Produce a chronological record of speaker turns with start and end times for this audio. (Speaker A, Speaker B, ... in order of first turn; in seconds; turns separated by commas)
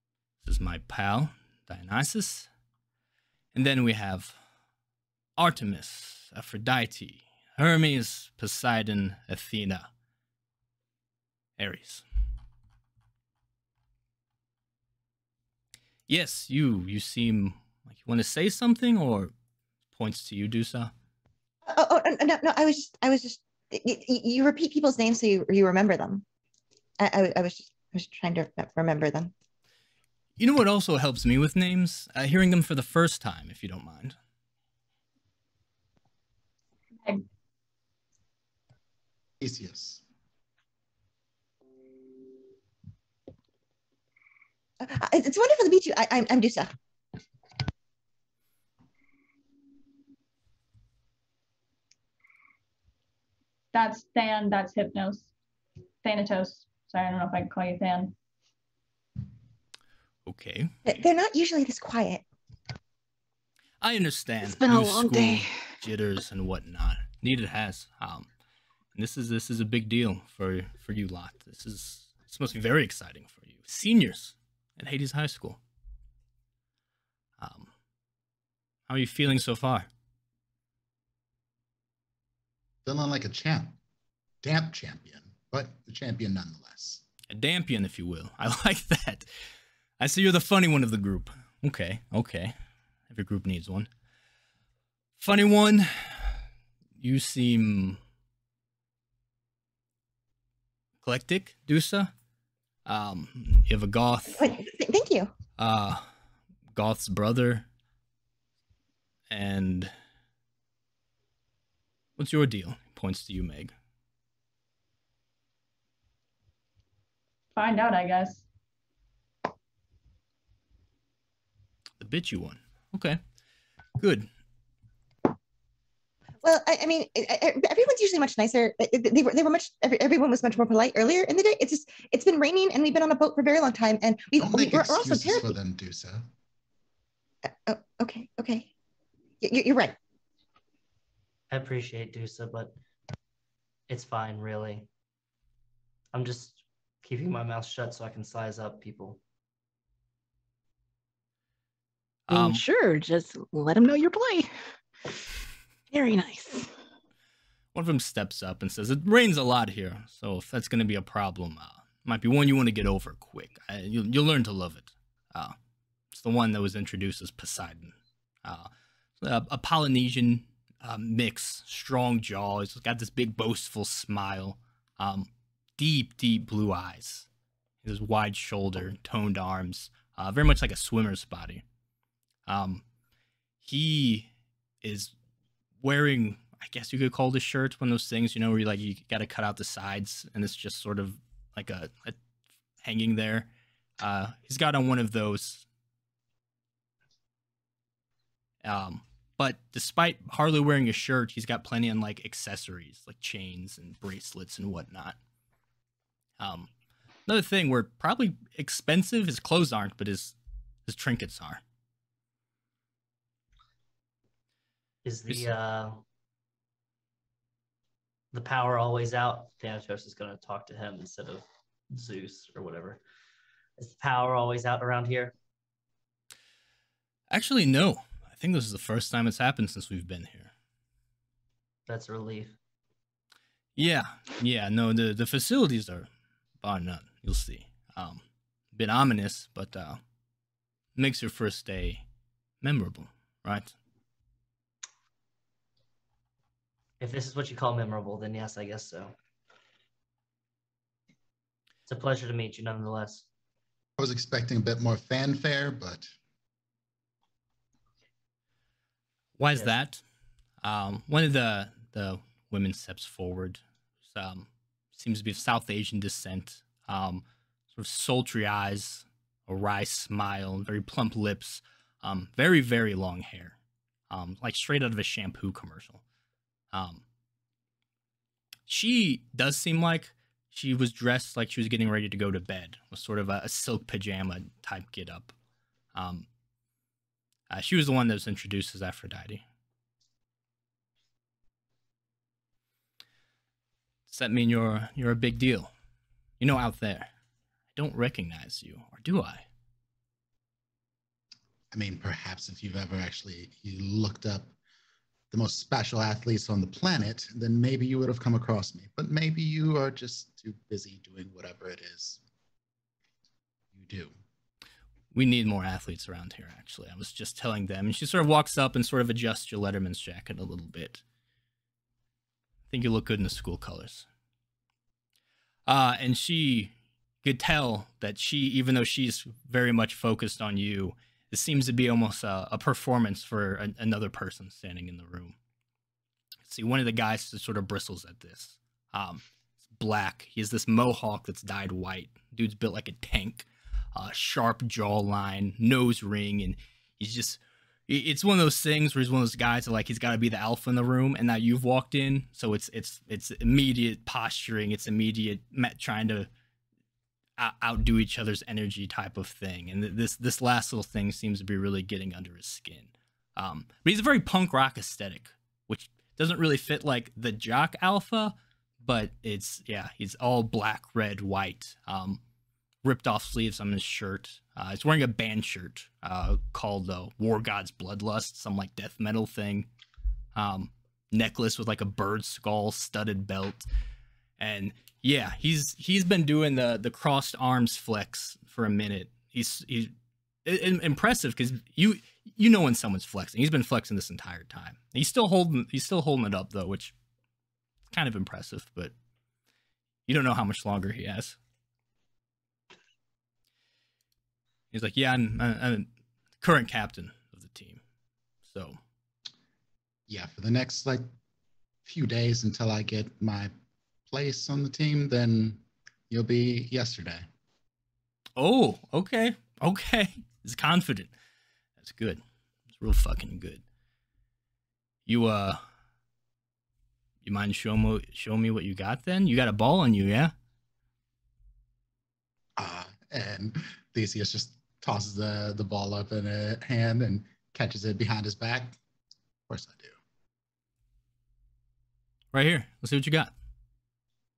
Speaker A: 0.4-2.5, Speaker A: 3.5-4.4, Speaker A: 5.4-9.9, Speaker A: 11.6-12.0, Speaker A: 16.1-19.3, Speaker A: 19.9-20.9, Speaker B: 21.7-26.2, Speaker B: 27.0-29.3, Speaker A: 30.4-34.1, Speaker C: 39.4-40.0, Speaker B: 44.8-46.7, Speaker D: 53.7-55.3, Speaker D: 56.0-58.1, Speaker A: 60.2-60.7, Speaker B: 60.9-62.2, Speaker A: 63.8-68.3, Speaker E: 64.4-65.5, Speaker A: 68.9-75.6, Speaker A: 77.4-77.7, Speaker A: 78.9-79.9, Speaker C: 82.8-83.8, Speaker C: 84.4-87.0, Speaker A: 87.3-89.3, Speaker A: 90.0-92.5, Speaker A: 93.1-93.9, Speaker A: 95.2-96.4, Speaker A: 97.0-98.0, Speaker A: 101.0-102.1, Speaker A: 102.8-104.4, Speaker B: 104.3-105.3, Speaker A: 105.6-106.1, Speaker A: 106.7-107.7, Speaker A: 109.3-109.9, Speaker A: 112.2-113.7, Speaker D: 117.5-118.4, Speaker A: 122.0-123.2, Speaker A: 124.0-124.3, Speaker B: 126.4-135.5, Speaker C: 134.4-136.2, Speaker B: 137.5-138.7, Speaker B: 139.4-139.9, Speaker F: 141.5-142.7, Speaker F: 143.9-144.9, Speaker F: 146.1-149.2, Speaker A: 152.3-152.6, Speaker E: 152.3-154.5, Speaker E: 155.9-156.7, Speaker A: 157.7-165.5, Speaker A: 166.1-177.3, Speaker A: 177.8-181.6, Speaker A: 182.4-182.8, Speaker A: 183.6-184.3, Speaker A: 184.8-185.1, Speaker A: 185.8-192.2, Speaker A: 192.8-195.6, Speaker A: 198.6-205.2, Speaker A: 206.4-206.7, Speaker A: 207.2-211.6, Speaker F: 215.0-216.0, Speaker F: 218.3-223.0, Speaker F: 223.8-225.3, Speaker A: 227.3-230.5, Speaker F: 231.9-232.6, Speaker A: 233.8-236.1, Speaker A: 236.6-240.0, Speaker A: 240.9-242.0, Speaker A: 242.6-243.7, Speaker F: 247.0-249.1, Speaker F: 251.9-253.2, Speaker C: 254.0-256.1, Speaker A: 259.4-260.0, Speaker A: 260.6-273.6, Speaker A: 274.1-276.0, Speaker A: 276.7-277.0, Speaker A: 278.7-285.3, Speaker A: 285.9-286.3, Speaker A: 287.5-289.4, Speaker A: 294.1-295.7, Speaker A: 296.4-297.1, Speaker A: 297.7-299.4, Speaker C: 301.7-304.5, Speaker C: 305.3-312.2, Speaker C: 313.7-314.1, Speaker A: 315.1-321.0, Speaker A: 322.7-324.1, Speaker A: 325.6-335.4, Speaker A: 336.4-356.3, Speaker A: 357.4-372.2, Speaker A: 372.8-379.7, Speaker A: 380.3-383.7, Speaker A: 384.4-389.9, Speaker A: 390.4-396.9, Speaker A: 397.9-398.9, Speaker A: 400.1-401.4, Speaker A: 404.7-405.9, Speaker A: 406.4-407.8, Speaker A: 408.4-408.8, Speaker C: 410.1-411.1, Speaker C: 411.8-413.5, Speaker C: 414.1-417.2, Speaker A: 418.4-421.1, Speaker A: 421.8-422.2, Speaker A: 422.8-423.6, Speaker A: 425.1-425.6, Speaker A: 427.2-430.3, Speaker C: 432.6-438.8, Speaker C: 439.5-440.0, Speaker A: 442.3-443.3